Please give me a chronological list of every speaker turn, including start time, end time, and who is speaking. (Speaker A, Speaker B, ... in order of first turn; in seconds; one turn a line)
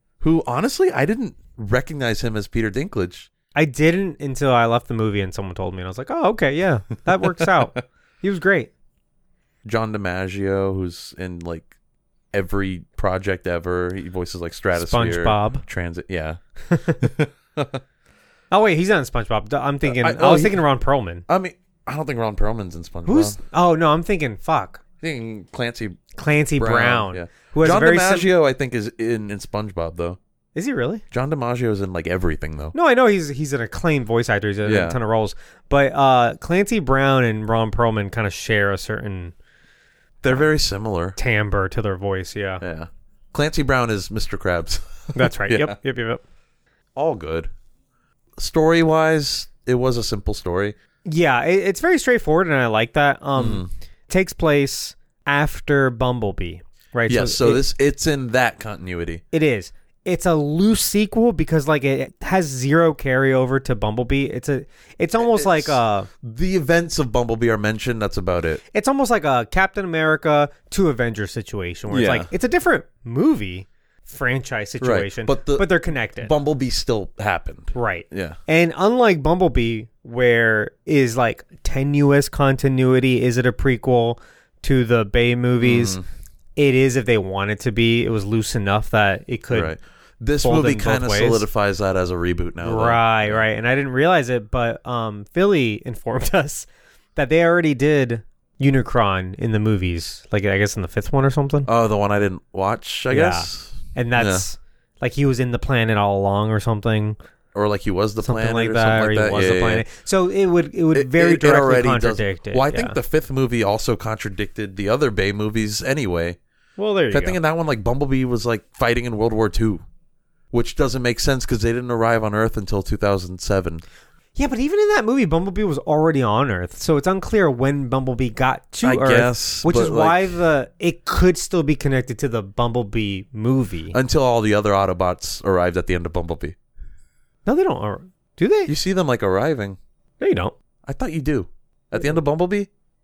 Speaker A: 0.2-3.3
Speaker B: 3.5-8.7
Speaker A: 9.6-11.7
Speaker A: 12.3-16.4
Speaker B: 14.7-15.6
Speaker B: 16.7-17.1
Speaker A: 17.0-17.8
Speaker B: 18.5-21.2
Speaker A: 19.8-20.6
Speaker A: 21.3-23.4
Speaker B: 23.1-24.8
Speaker A: 25.0-26.0
Speaker B: 26.1-28.3
Speaker A: 26.6-30.2
Speaker B: 30.5-31.0
Speaker A: 31.1-32.7
Speaker B: 32.7-39.3
Speaker A: 34.6-35.0
Speaker A: 40.2-41.2
Speaker B: 41.2-42.6
Speaker A: 42.6-45.8
Speaker B: 45.1-46.2
Speaker A: 47.0-47.5
Speaker A: 48.4-50.7
Speaker B: 51.0-57.6
Speaker A: 53.4-53.7
Speaker A: 57.1-59.2
Speaker B: 59.3-66.1
Speaker A: 65.2-68.6
Speaker B: 68.7-76.3
Speaker A: 71.9-72.3
Speaker A: 74.8-75.7
Speaker A: 76.2-78.4
Speaker B: 77.7-86.0
Speaker A: 85.6-86.0
Speaker B: 86.5-89.7
Speaker A: 89.5-93.4
Speaker B: 90.4-91.5
Speaker B: 92.6-101.7
Speaker A: 101.7-104.4
Speaker B: 103.1-107.2
Speaker A: 107.5-109.8
Speaker B: 108.2-113.0
Speaker A: 110.9-116.4
Speaker B: 116.8-117.4
Speaker A: 117.1-119.8
Speaker A: 120.5-123.8
Speaker B: 124.3-133.9
Speaker A: 128.8-130.4
Speaker A: 133.9-136.6
Speaker B: 137.4-138.7
Speaker A: 138.7-139.8
Speaker B: 140.2-140.5
Speaker A: 140.8-142.7